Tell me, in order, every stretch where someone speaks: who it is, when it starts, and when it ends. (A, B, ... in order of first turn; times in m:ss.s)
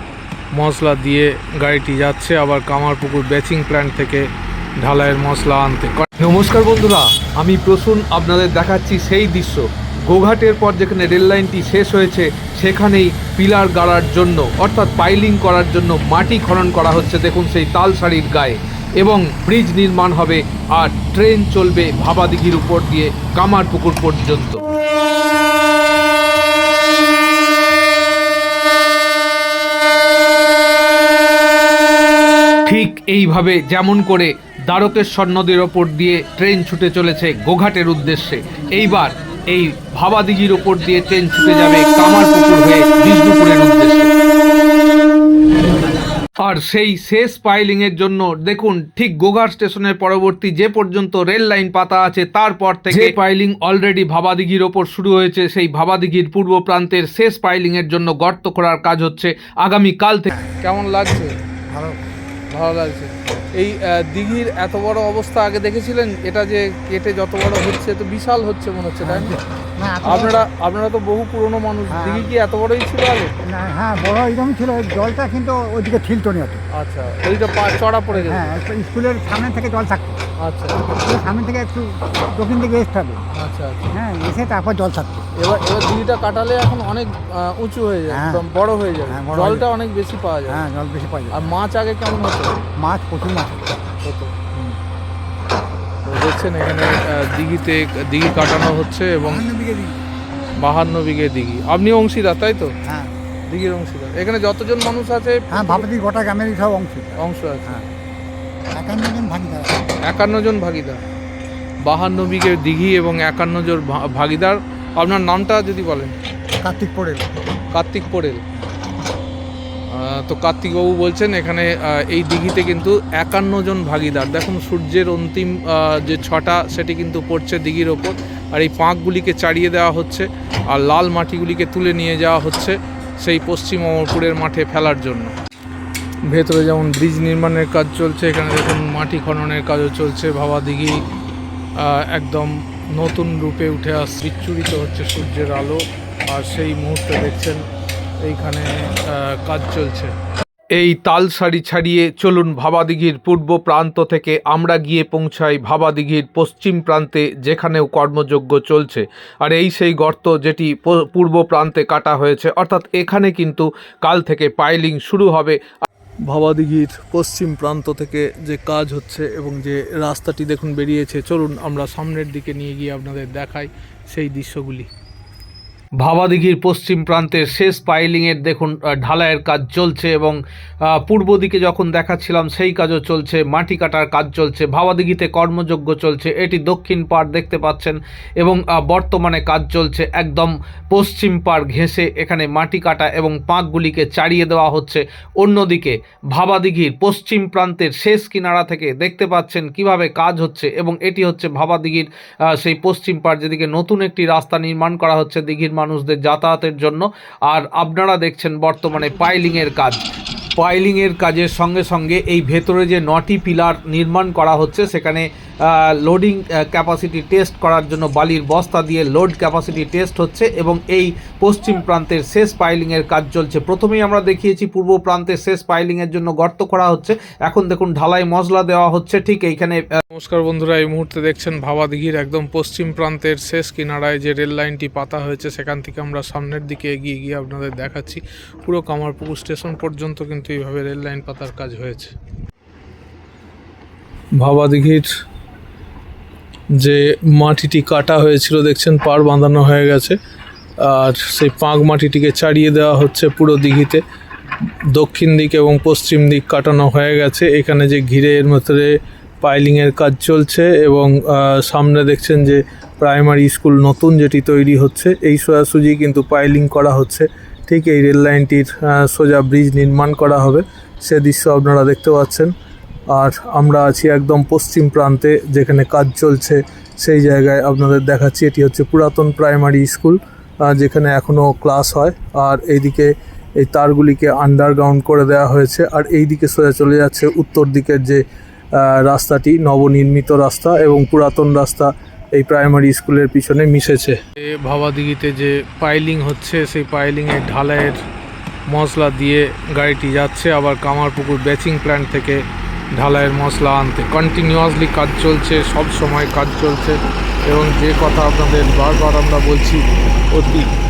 0:00.5-0:04.2 A
0:04.8-0:06.0 A
0:06.2-0:24.6 B
0:32.6-0:44.1 B
0:46.4-1:00.3 B
1:00.6-1:01.3 A
1:01.7-1:02.0 C
1:02.5-1:09.3 A
1:09.0-1:10.4 C
1:10.0-1:13.3 A
1:11.9-1:12.3 C
1:13.4-1:16.6 C
1:16.8-1:18.5 A
1:18.1-1:20.2 C
1:20.4-1:20.8 A
1:20.8-1:23.2 C
1:23.3-1:23.9 A
1:23.9-1:25.2 C
1:25.4-1:30.6 A
1:28.1-1:28.4 C
1:29.1-1:29.6 C
1:30.5-1:31.5 C
1:31.3-1:32.7 A
1:32.8-1:33.8 C
1:34.0-1:34.5 A
1:36.0-1:39.4 A
1:39.2-1:40.0 C
1:40.6-1:42.7 A
1:42.8-1:43.1 C
1:43.5-1:45.8 A
1:45.5-1:47.9 C
1:47.2-1:47.8 A
1:48.7-1:49.8 C
1:50.0-1:51.0 A
1:51.8-1:56.1 A
1:56.6-1:57.3 C
1:57.7-1:58.4 A
1:59.9-2:15.3 A
2:16.3-2:21.0 A
2:21.8-2:27.6 A
2:28.2-2:30.1 A
2:30.7-2:45.6 B
2:46.3-2:54.9 A
2:56.0-3:30.0 B
3:30.6-3:50.0 B
3:50.1-4:02.1 A
4:04.4-4:05.1 A
4:06.8-4:10.2 A
4:10.8-4:14.0 A
4:14.9-4:32.5 A
4:33.1-4:48.2 A
4:48.8-4:58.0 A
4:58.7-5:02.4 A
5:02.9-5:10.7 A